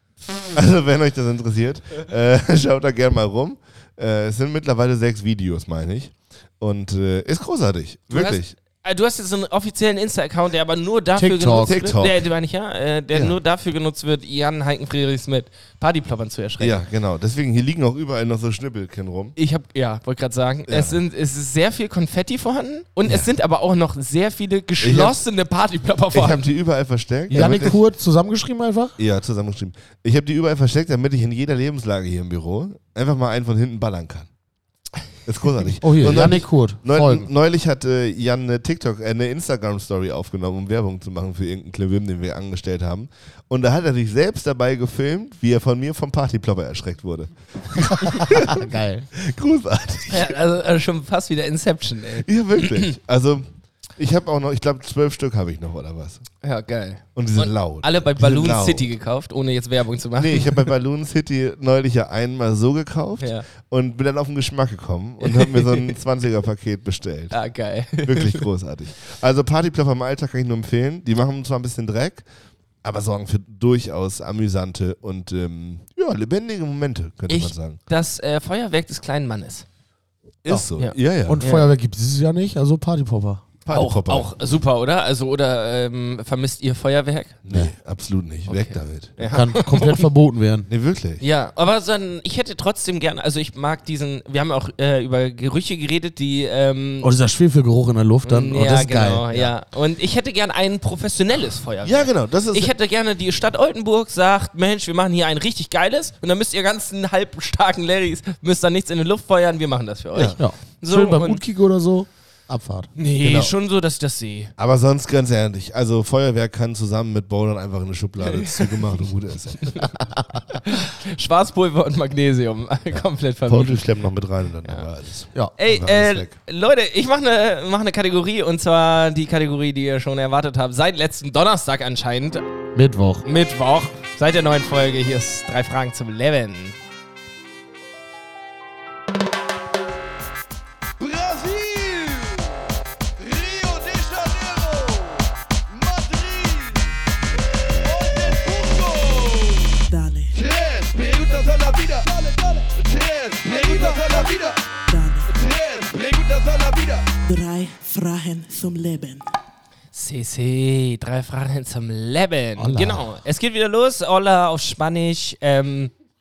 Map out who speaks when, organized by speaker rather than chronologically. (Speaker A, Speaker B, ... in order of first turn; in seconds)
Speaker A: 0.5-8.5, 11.6-12.2, 16.6-19.4, 20.7-21.0, 24.8-25.2, 26.1-27.8, 29.0-34.3, 35.2-50.4, 52.2-56.2, 57.2-58.9, 60.2-67.3, 68.0-72.2, 72.8-77.8, 80.4-81.4, 83.7-84.3, 87.5-89.4, 90.7-91.2, 101.8-102.7, 113.2-113.5, 114.6-119.9, 123.5-126.3
Speaker B: 8.1-16.9, 19.4-26.5, 27.4-27.7, 50.1-52.9, 56.4-60.7, 63.2-63.5, 65.2-66.0, 67.3-68.5, 77.3-79.7, 80.8-81.7, 83.7-87.4, 88.5-90.1, 91.2-97.1, 98.3-111.4, 113.0-114.5, 118.2-118.9, 120.6-123.8, 125.6-132.4, 133.2-136.8, 159.9-165.9
Speaker C: 11.2-11.8, 27.3-29.0, 35.8-37.3, 47.9-49.1, 81.3-83.4, 89.3-90.7, 97.0-99.2, 110.4-112.9, 132.8-133.2, 162.6-163.1
Speaker D: 141.0-146.9, 147.8-154.7, 155.3-157.1
Speaker E: 149.9-150.3, 154.9-155.3, 157.2-159.2